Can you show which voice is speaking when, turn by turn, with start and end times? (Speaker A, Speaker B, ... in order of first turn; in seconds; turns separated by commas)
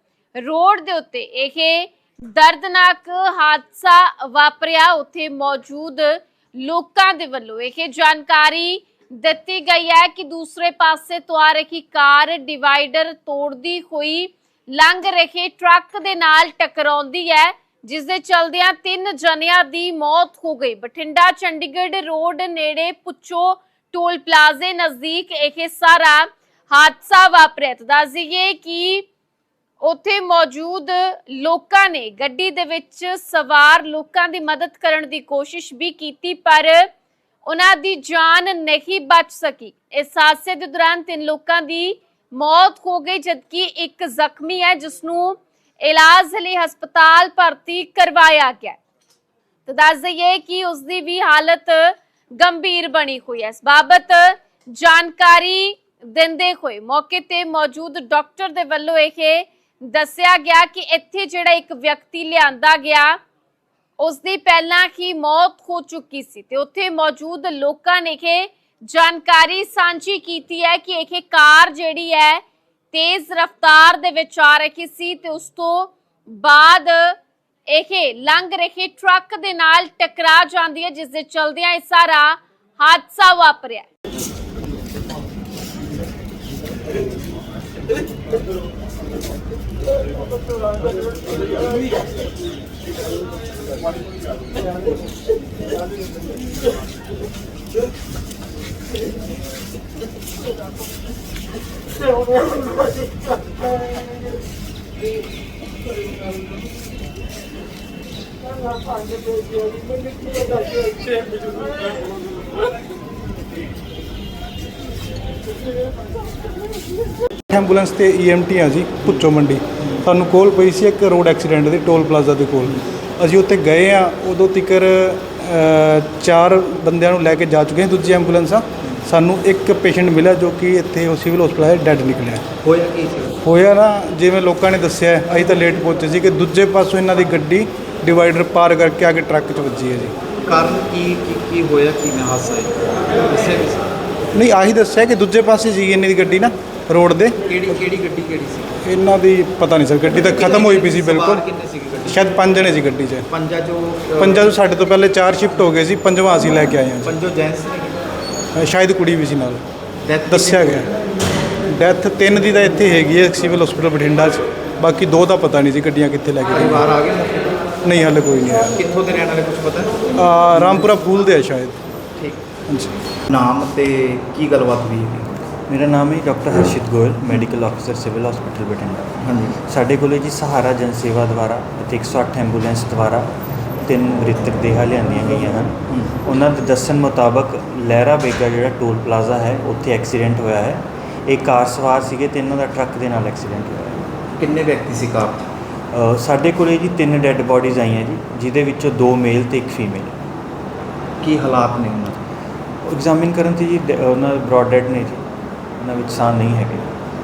Speaker A: 0.4-29.1, Speaker A: 29.8-36.9, Speaker A: 37.5-48.8, Speaker A: 49.6-63.2, Speaker A: 64.0-77.2, Speaker A: 77.7-83.9, Speaker B: 117.5-132.4, Speaker C: 132.6-133.4, Speaker B: 133.4-140.1, Speaker C: 140.5-143.9, Speaker B: 144.3-147.5, Speaker C: 147.5-148.8, Speaker B: 148.8-151.4, Speaker C: 150.2-152.2, Speaker B: 152.1-153.3, Speaker C: 153.3-154.5, Speaker B: 154.2-157.2, Speaker C: 157.0-158.0, Speaker B: 158.6-159.6, Speaker C: 160.0-160.9, Speaker B: 160.3-160.9, Speaker B: 161.7-166.9, Speaker C: 166.5-167.6, Speaker B: 167.8-168.8, Speaker C: 168.8-170.8, Speaker B: 170.2-171.8, Speaker C: 172.2-172.4, Speaker B: 172.7-172.9, Speaker C: 173.3-175.5, Speaker D: 175.7-183.3, Speaker C: 179.2-179.6, Speaker D: 183.8-194.1, Speaker C: 194.4-195.5, Speaker D: 195.9-200.2, Speaker C: 201.2-202.2, Speaker D: 202.8-205.2, Speaker D: 205.8-206.9